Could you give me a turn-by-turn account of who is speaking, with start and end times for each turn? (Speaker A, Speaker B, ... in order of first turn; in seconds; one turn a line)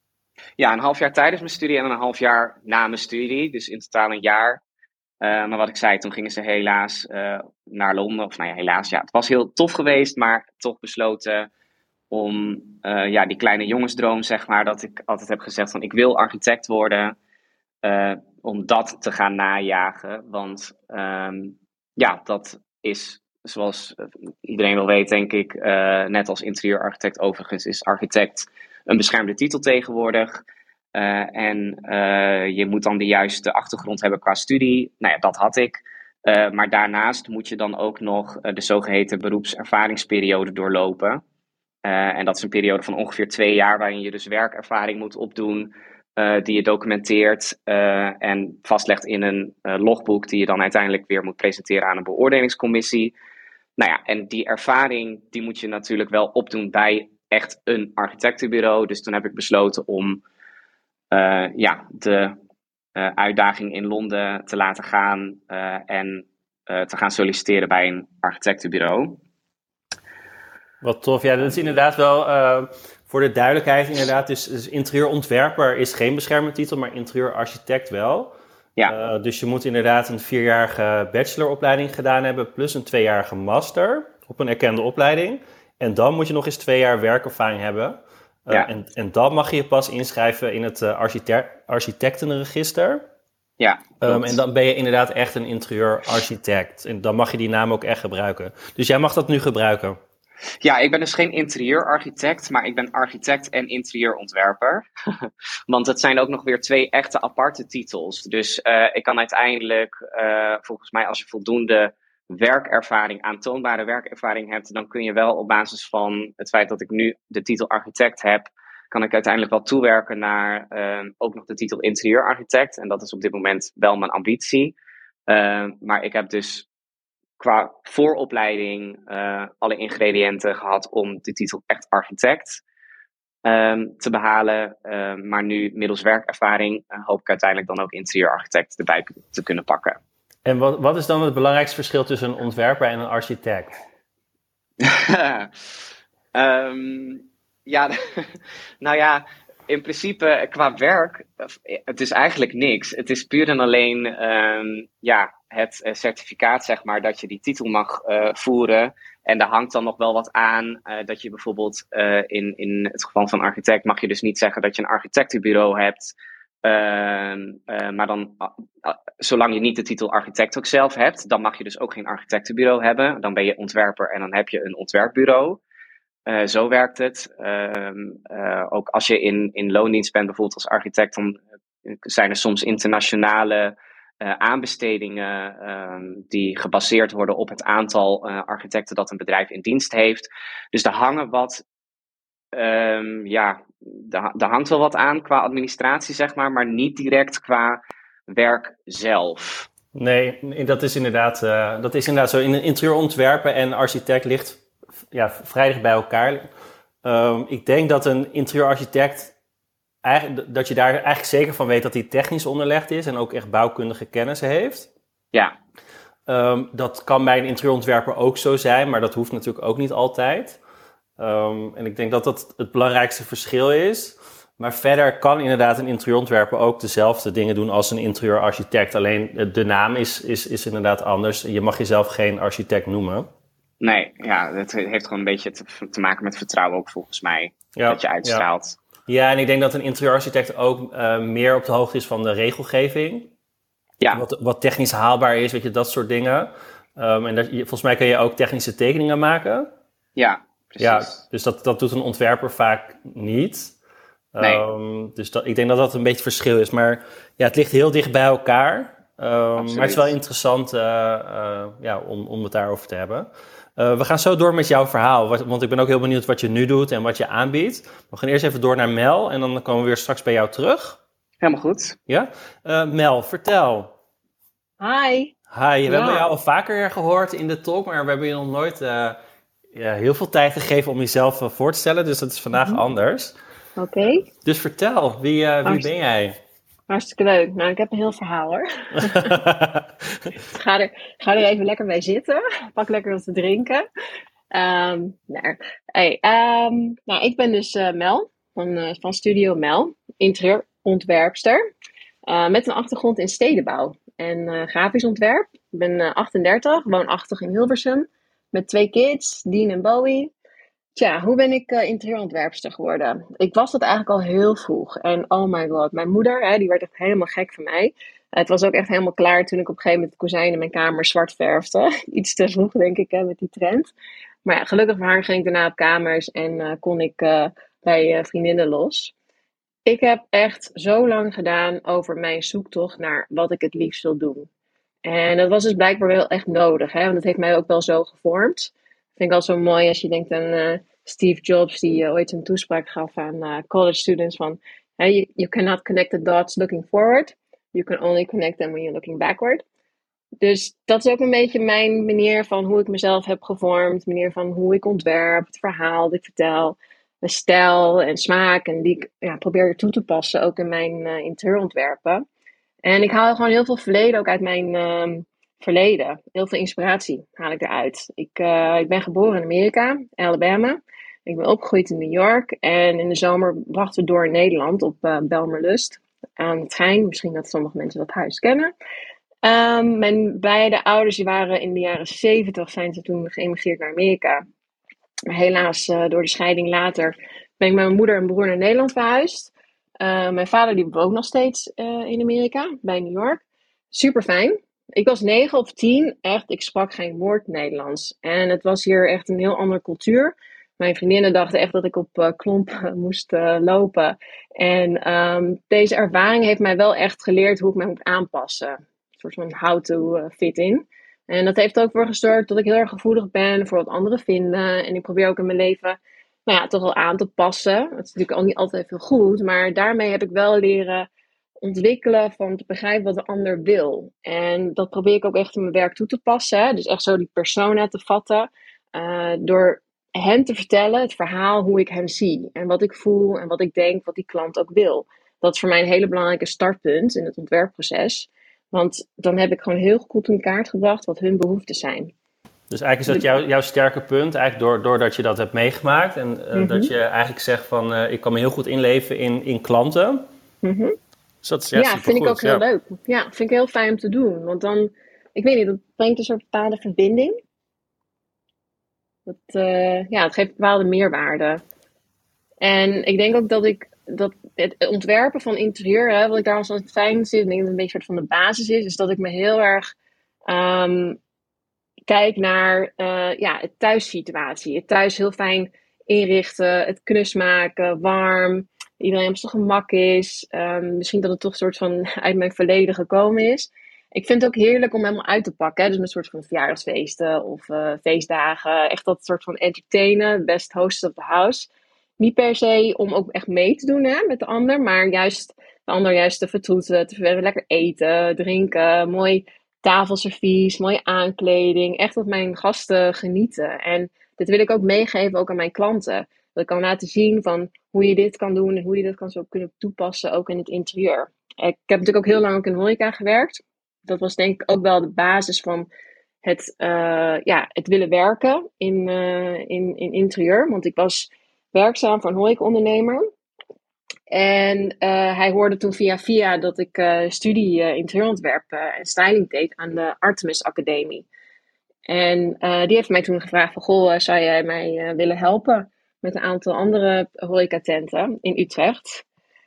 Speaker A: 0.6-4.6
Speaker A: 5.2-11.5
Speaker A: 12.1-17.1
Speaker A: 17.8-30.4
Speaker A: 30.9-41.2
Speaker A: 41.8-53.1
Speaker A: 53.8-60.2
Speaker A: 61.1-62.3
Speaker A: 62.9-69.2
Speaker B: 70.8-78.3
Speaker B: 78.9-93.0
Speaker A: 93.6-94.4
Speaker B: 94.0-100.0
Speaker A: 100.6-124.7
Speaker A: 125.3-126.7
Speaker A: 127.4-132.6
Speaker A: 133.4-140.0
Speaker B: 140.4-143.8
Speaker A: 144.8-145.5
Speaker A: 146.3-175.6
Speaker A: 176.3-191.6
Speaker A: 192.5-199.7
Speaker B: 199.9-206.5
Speaker B: 207.0-209.3
Speaker B: 210.0-214.9
Speaker B: 216.3-220.6
Speaker B: 221.2-233.3
Speaker A: 233.8-238.8
Speaker B: 237.8-238.4
Speaker B: 239.1-243.3
Speaker B: 244.1-249.7
Speaker A: 250.2-251.2
Speaker B: 250.8-253.7
Speaker B: 254.3-271.0
Speaker A: 259.6-260.1
Speaker A: 271.4-272.0
Speaker B: 272.1-273.9
Speaker C: 274.8-275.3
Speaker B: 275.5-279.2
Speaker C: 275.9-276.3
Speaker B: 279.7-283.4
Speaker C: 283.8-284.2
Speaker B: 284.4-286.3
Speaker C: 286.9-289.4
Speaker B: 289.0-290.2
Speaker C: 290.5-293.8
Speaker C: 294.5-301.6
Speaker C: 302.2-310.3
Speaker C: 310.9-323.9
Speaker C: 324.4-329.1
Speaker C: 329.9-334.5
Speaker C: 335.0-349.6
Speaker C: 350.4-362.2
Speaker C: 362.8-378.7
Speaker C: 379.4-384.4
Speaker C: 385.3-421.1
Speaker C: 421.6-442.1
Speaker B: 442.7-450.2
Speaker C: 446.5-446.9
Speaker C: 450.6-450.9
Speaker B: 451.4-452.6
Speaker C: 451.7-457.4
Speaker C: 459.2-461.6
Speaker C: 462.6-469.9
Speaker C: 470.5-471.2
Speaker C: 472.1-515.9
Speaker C: 516.4-523.2
Speaker C: 524.3-531.2
Speaker C: 532.1-539.2